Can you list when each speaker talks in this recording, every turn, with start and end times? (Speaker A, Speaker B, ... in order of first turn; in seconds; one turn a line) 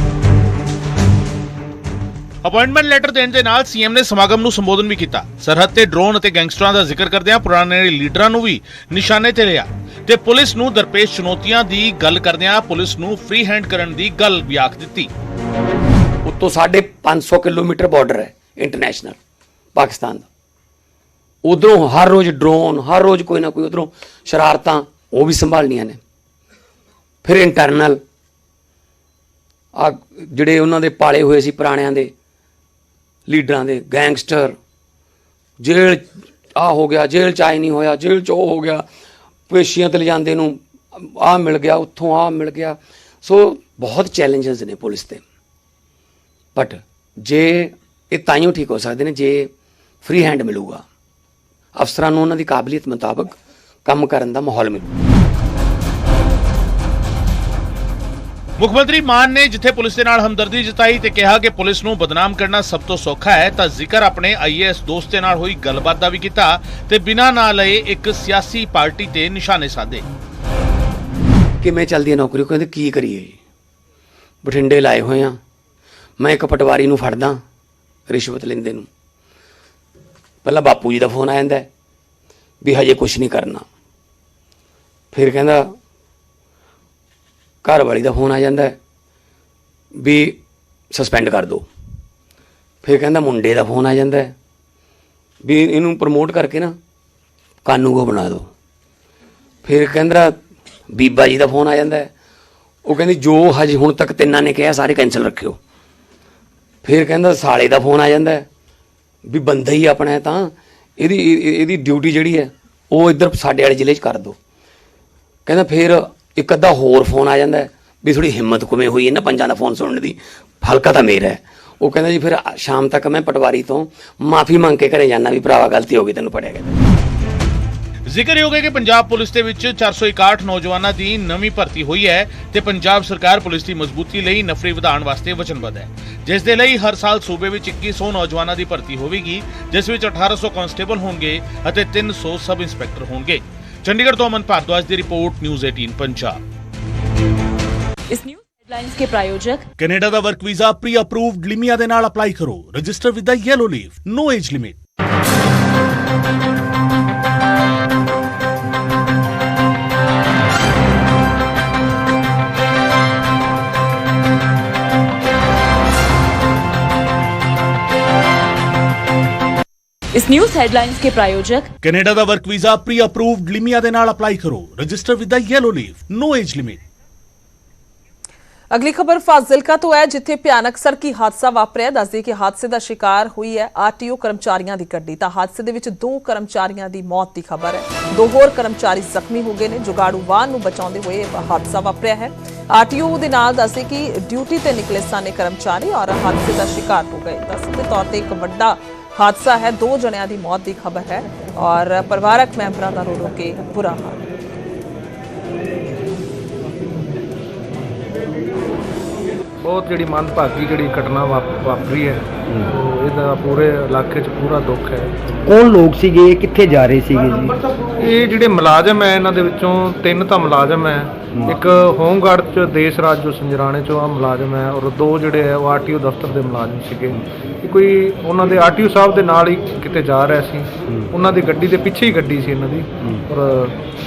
Speaker A: 2.4-15.1
Speaker B: 16.2-19.1
Speaker B: 19.7-20.3
Speaker B: 21.4-26.0
Speaker B: 27.2-28.0
Speaker B: 29.7-32.1
Speaker B: 33.3-34.5
Speaker B: 35.6-36.0
Speaker B: 36.5-38.9
Speaker B: 39.5-45.2
Speaker B: 46.5-49.5
Speaker B: 50.0-50.8
Speaker B: 51.7-53.3
Speaker B: 53.9-55.0
Speaker A: 58.6-70.0
Speaker B: 71.6-73.4
Speaker B: 74.4-75.4
Speaker B: 76.2-77.4
Speaker B: 78.1-78.9
Speaker B: 80.4-81.7
Speaker B: 82.6-83.6
Speaker B: 85.1-85.7
Speaker B: 87.6-88.8
Speaker B: 90.0-90.4
Speaker B: 90.9-91.7
Speaker B: 92.8-94.3
Speaker B: 95.4-96.8
Speaker B: 97.6-98.5
Speaker B: 99.6-100.4
Speaker B: 100.9-102.1
Speaker B: 102.8-105.6
Speaker B: 106.8-108.5
Speaker B: 109.2-114.3
Speaker B: 115.5-126.8
Speaker A: 128.1-146.4
Speaker C: 148.1-149.7
Speaker A: 149.8-154.8
Speaker C: 170.1-171.7
Speaker A: 171.8-176.8
Speaker D: 178.7-204.3
Speaker E: 209.6-215.1
Speaker F: 215.4-217.5
Speaker E: 218.0-233.8